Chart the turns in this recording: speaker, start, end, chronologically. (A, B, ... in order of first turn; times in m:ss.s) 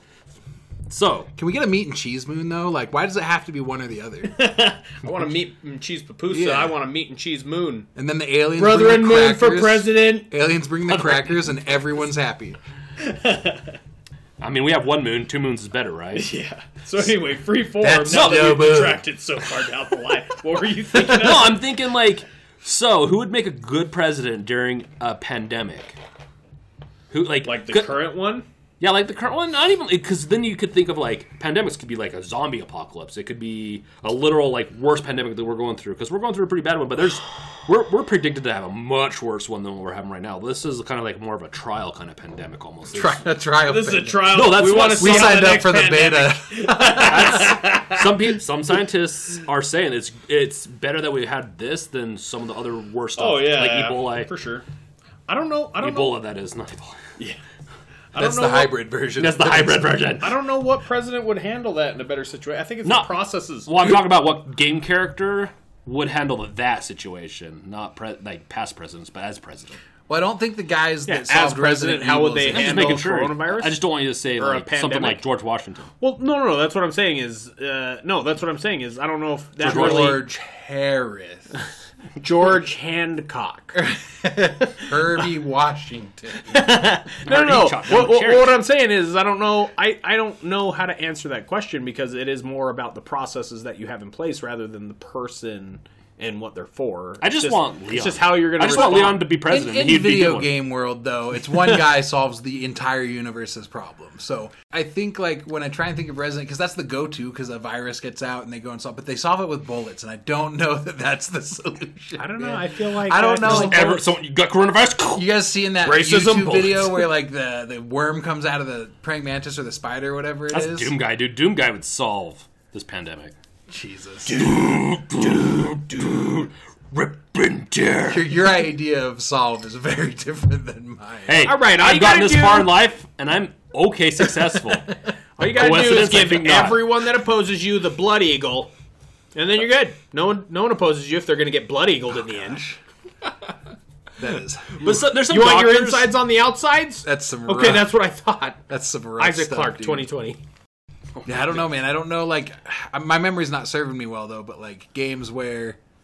0:00.9-0:01.3 A
0:01.4-0:04.4 B
0:04.3-0:07.9 C
0:06.3-0:06.7 B
0:08.0-0:12.6 B
0:08.6-0:10.3 C
0:10.9-0:11.4 A
0:13.0-0:13.8 C
0:14.4-0:16.3 A
0:16.1-0:21.6 C
0:17.8-0:19.0 B
0:18.1-0:18.8 A
0:21.1-0:26.0 A
0:27.1-0:28.0 A
0:27.4-0:28.4 C
0:28.8-0:43.2 A
0:42.9-0:47.4 B
0:43.6-0:48.1 C
0:44.3-0:45.6 A
0:46.9-0:54.3 A
0:53.2-0:54.6 C
0:55.3-0:56.2 C
0:55.8-0:57.0 A
0:58.1-0:58.7 C
0:58.2-1:00.0 B
0:59.2-1:00.3 A
1:00.2-1:03.8 C
1:02.8-1:03.1 A
1:03.7-1:09.8 A
1:10.1-1:13.1 B
1:11.1-1:15.2 C
1:12.5-1:15.9 A
1:16.0-1:20.2 C
1:19.6-1:20.2 A
1:19.6-1:21.5 B
1:22.2-1:23.8 C
1:23.8-1:26.6 B
1:26.5-1:39.3 C
1:27.2-1:28.6 A
1:37.2-1:40.5 A
1:38.7-1:54.0 B
1:52.2-1:54.0 C
1:53.4-1:55.3 A
1:55.2-2:00.9 B
1:55.8-1:57.1 C
2:00.5-2:03.3 A
2:03.7-2:04.4 B
2:04.3-2:08.3 A
2:08.1-2:11.4 B
2:11.3-2:16.9 A
2:11.4-2:12.8 C
2:15.4-2:18.7 C
2:19.4-2:22.6 C
2:22.5-2:22.8 B
2:24.2-2:24.9 B
2:24.7-2:26.1 A
2:25.0-2:28.6 C
2:27.0-2:27.9 B
2:28.7-2:30.1 B
2:29.2-2:30.4 C
2:31.2-2:35.8 B